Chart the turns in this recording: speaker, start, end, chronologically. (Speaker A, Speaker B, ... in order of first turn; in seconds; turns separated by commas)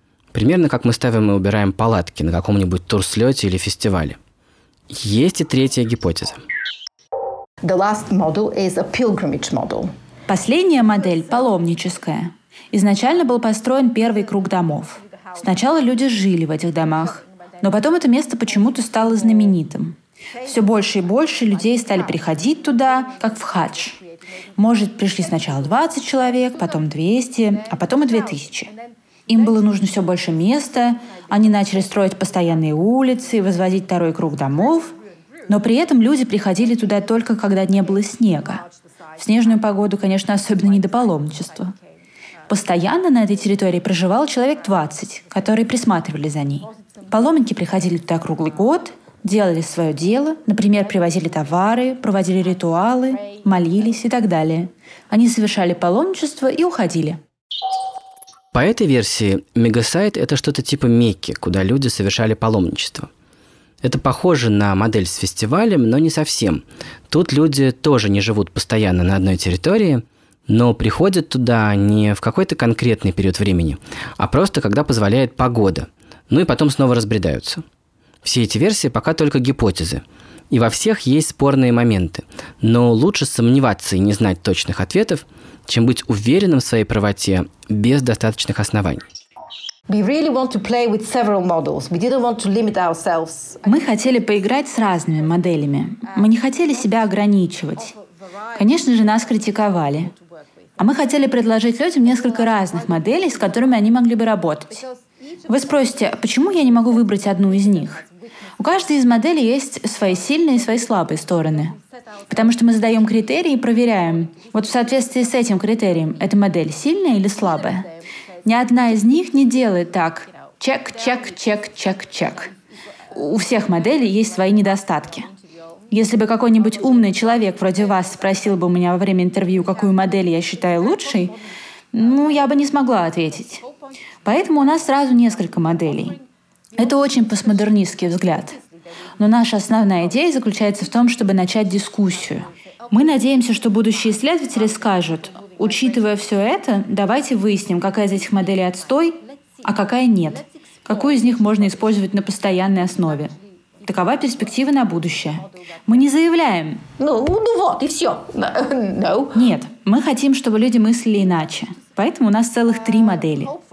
Speaker A: 0.3-4.2, Speaker A: 4.9-6.4, Speaker B: 7.6-9.9, Speaker C: 10.3-24.0, Speaker C: 24.6-28.7, Speaker C: 29.3-34.9, Speaker C: 35.5-38.6, Speaker C: 39.2-41.7, Speaker C: 42.5-57.2, Speaker A: 58.5-63.1, Speaker A: 63.8-77.6, Speaker A: 78.2-89.0, Speaker B: 89.9-93.6, Speaker C: 93.6-98.0, Speaker C: 98.5-100.1, Speaker C: 100.8-104.8, Speaker C: 105.5-108.0, Speaker C: 108.6-111.8, Speaker C: 112.3-117.9, Speaker C: 118.4-122.5, Speaker C: 123.1-125.3, Speaker C: 125.9-131.3, Speaker C: 131.9-133.6, Speaker C: 134.2-136.2, Speaker C: 136.8-138.6, Speaker C: 139.2-153.3, Speaker C: 153.8-156.8, Speaker B: 157.0-159.4, Speaker C: 159.3-163.5